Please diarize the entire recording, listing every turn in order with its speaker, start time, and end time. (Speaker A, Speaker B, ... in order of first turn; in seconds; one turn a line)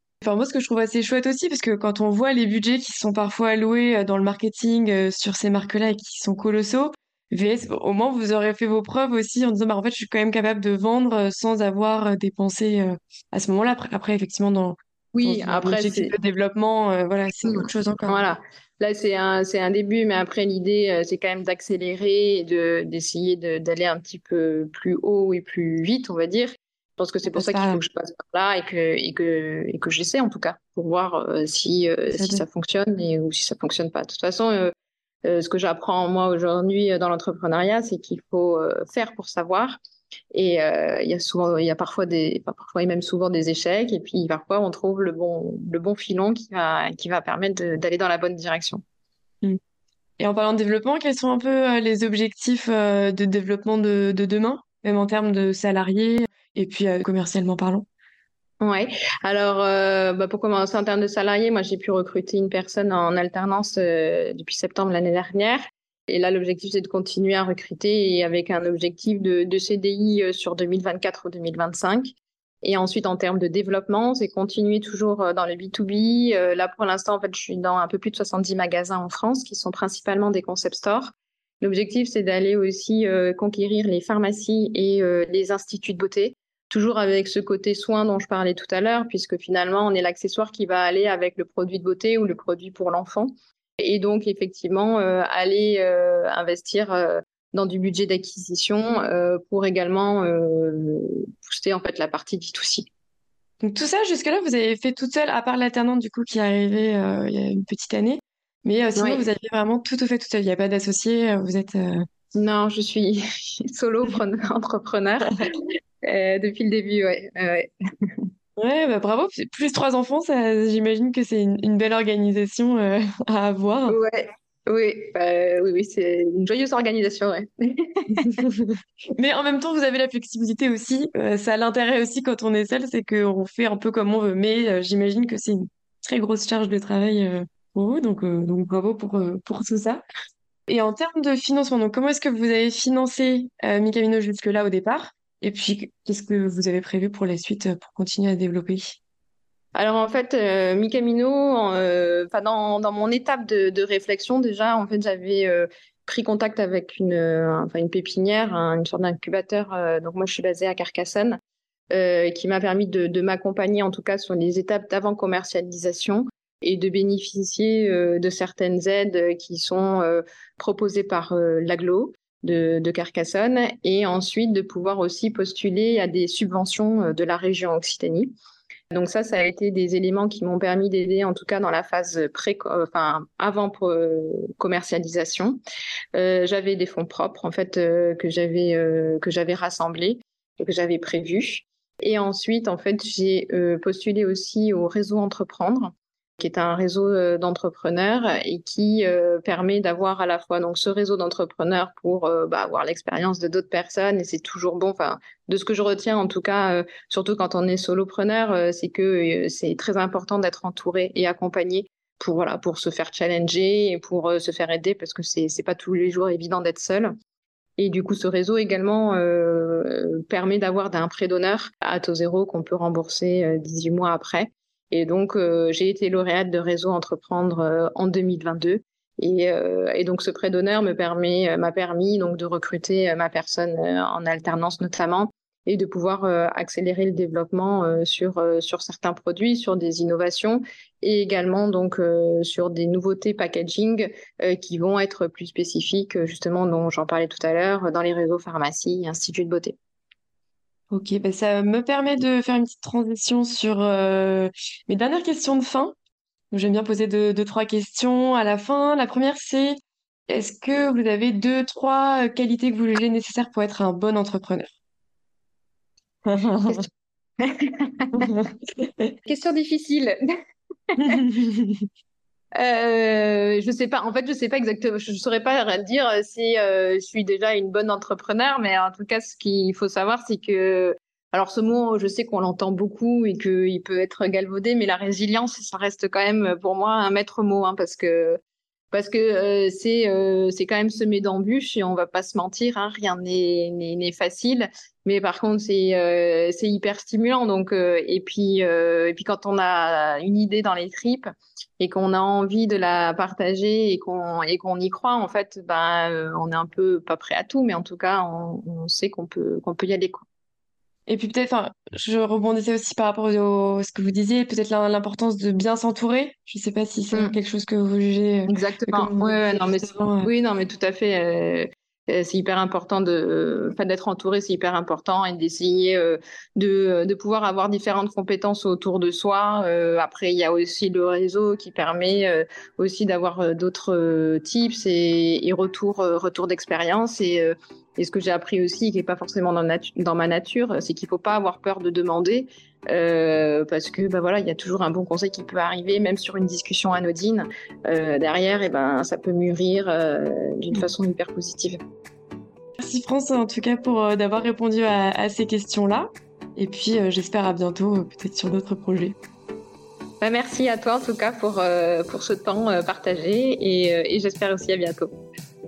Speaker A: 0.2-18.2
Speaker B: 15.1-16.1
Speaker B: 17.4-34.7
Speaker A: 27.3-27.8
Speaker A: 32.1-32.4
Speaker B: 35.2-39.8
Speaker B: 40.3-48.8
Speaker A: 50.2-57.9
Speaker B: 58.6-102.9
Speaker A: 103.6-112.1
Speaker B: 109.0-109.3
Speaker B: 112.3-118.2
Speaker A: 118.6-124.0
Speaker B: 123.9-128.4
Speaker A: 128.2-140.0
Speaker A: 140.7-149.0
Speaker B: 149.7-161.4
Speaker B: 161.9-178.3
Speaker B: 178.9-185.6
Speaker B: 186.1-217.1
Speaker B: 217.8-249.8
Speaker A: 250.9-255.9
Speaker A: 256.5-264.7
Speaker A: 266.2-266.9
Speaker B: 267.4-268.4
Speaker A: 268.1-269.1
Speaker B: 269.3-270.1
Speaker A: 271.0-271.9
Speaker B: 272.6-288.4
Speaker B: 288.9-301.3
Speaker B: 301.8-310.2
Speaker A: 311.1-320.3
Speaker B: 318.5-351.8
Speaker A: 352.8-359.1
Speaker B: 360.2-365.1